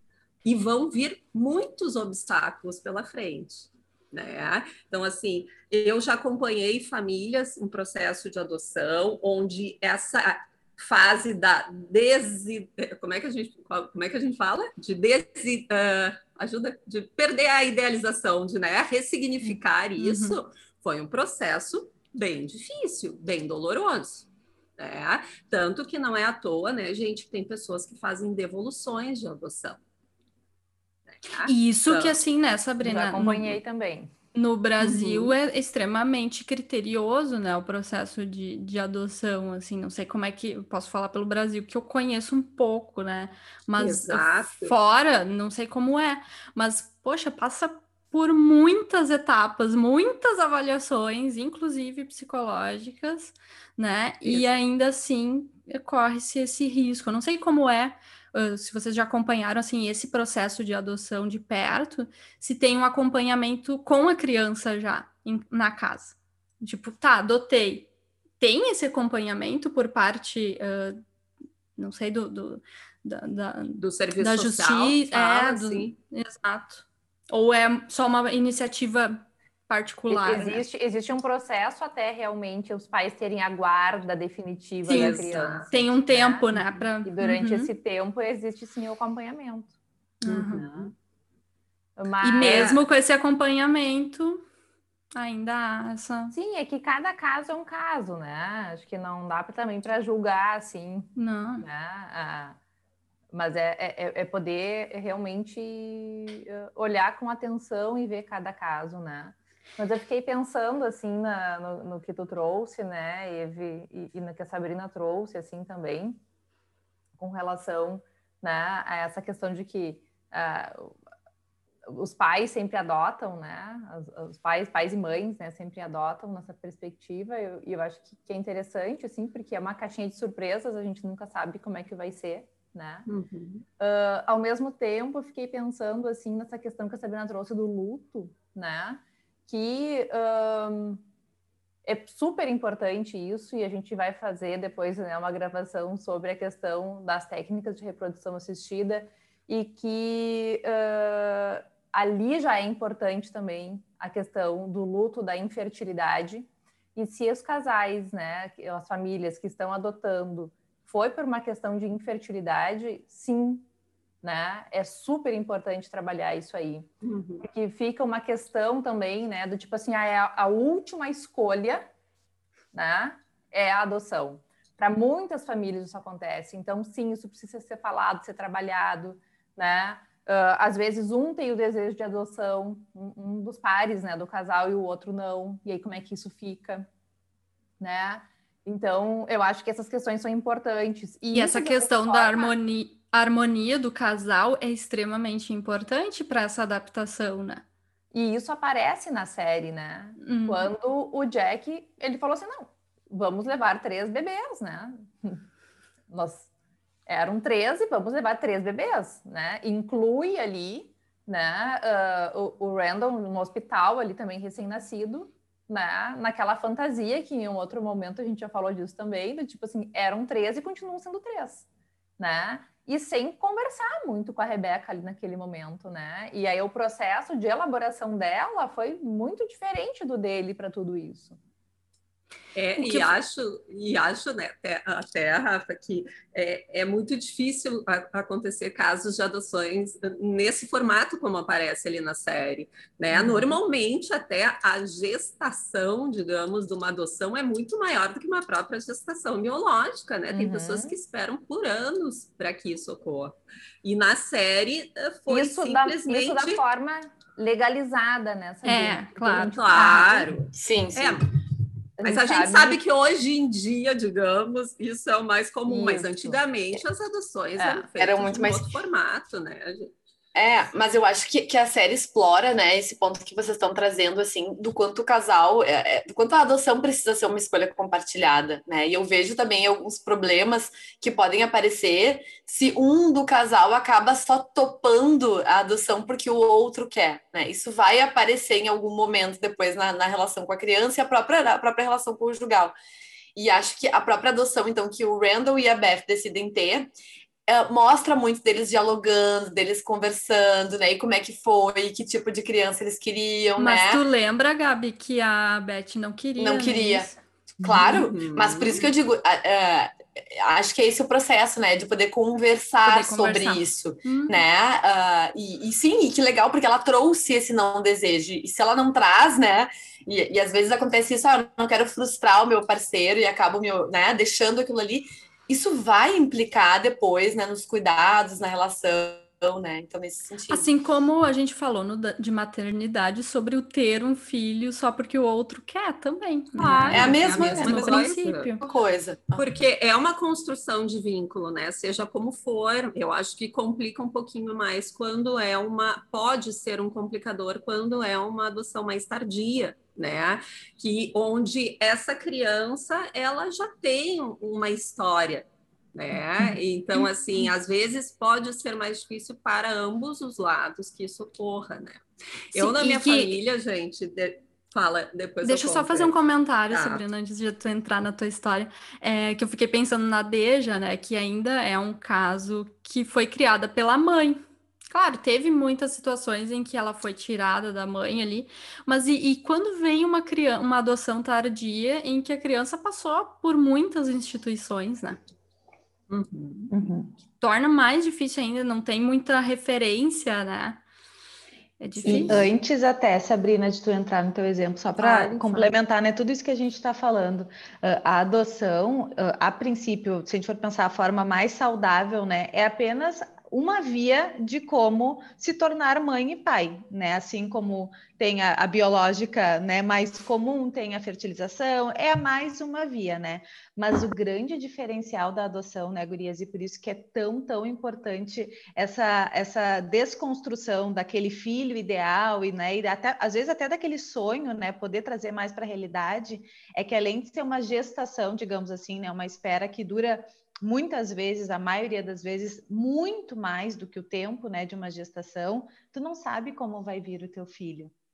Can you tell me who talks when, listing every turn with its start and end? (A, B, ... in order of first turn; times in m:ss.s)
0:00.4-0:24.3 A
0:19.4-0:20.4 B
0:24.8-0:29.8 A
0:31.2-0:32.2 A
0:31.4-0:33.6 B
0:32.8-0:34.1 C
0:34.3-1:07.9 B
0:34.8-0:35.3 A
0:43.8-0:44.8 A
0:54.2-0:54.6 A
1:08.4-1:11.0 B
1:11.8-1:20.7 B
1:13.8-1:15.9 A
1:20.1-1:26.5 C
1:24.9-1:25.7 A
1:24.9-1:25.2 B
1:25.7-1:27.7 B
1:27.0-1:29.8 C
1:30.2-1:30.6 B
1:30.2-1:30.9 A
1:30.5-1:30.9 C
1:32.0-1:32.8 C
1:32.2-1:34.4 B
1:32.4-1:32.8 A
1:35.2-1:36.3 B
1:36.3-1:42.6 C
1:41.2-1:41.7 B
1:43.3-1:56.2 C
1:57.2-2:00.9 C
2:01.9-2:13.1 C
2:13.1-2:13.6 A
2:13.8-2:21.0 C
2:21.8-2:43.7 C
2:44.2-2:46.9 C
2:47.0-2:47.5 A
2:47.4-2:51.9 C
2:52.7-3:06.9 C
3:07.8-3:12.6 C
3:11.3-3:17.6 B
3:18.1-3:25.4 C
3:20.2-3:20.7 B
3:26.1-3:26.5 C
3:27.1-3:41.7 C
3:42.2-3:51.4 C
3:52.6-4:16.6 A
3:52.8-3:53.1 B
4:03.1-4:03.6 C
4:10.3-4:11.0 C
4:15.3-4:20.3 C
4:18.6-4:19.6 B
4:19.3-4:21.2 A
4:20.5-4:21.2 D
4:22.0-4:22.8 C
4:22.0-4:29.9 A
4:25.7-4:26.4 C
4:27.6-4:27.8 C
4:28.0-4:28.8 D
4:30.3-4:52.7 D
4:53.3-4:56.9 D
4:57.5-5:04.0 D
5:03.6-5:07.2 B
5:06.4-5:30.7 D
5:07.8-5:08.9 A
5:12.8-5:14.4 B
5:30.5-5:38.6 B
5:36.6-5:38.5 A
5:36.9-5:38.0 D
5:38.6-5:39.5 D
5:39.4-6:02.0 A
6:02.5-6:03.3 B
6:02.5-6:06.2 A
6:05.4-6:14.4 B
6:06.7-6:07.0 A
6:14.9-6:25.2 B
6:26.1-6:26.7 A
6:26.7-6:27.1 E
6:27.4-6:30.8 B
6:31.8-6:32.4 B
6:32.0-7:17.9 E
6:32.1-6:32.3 D
6:32.1-6:32.5 A
6:35.0-6:35.7 B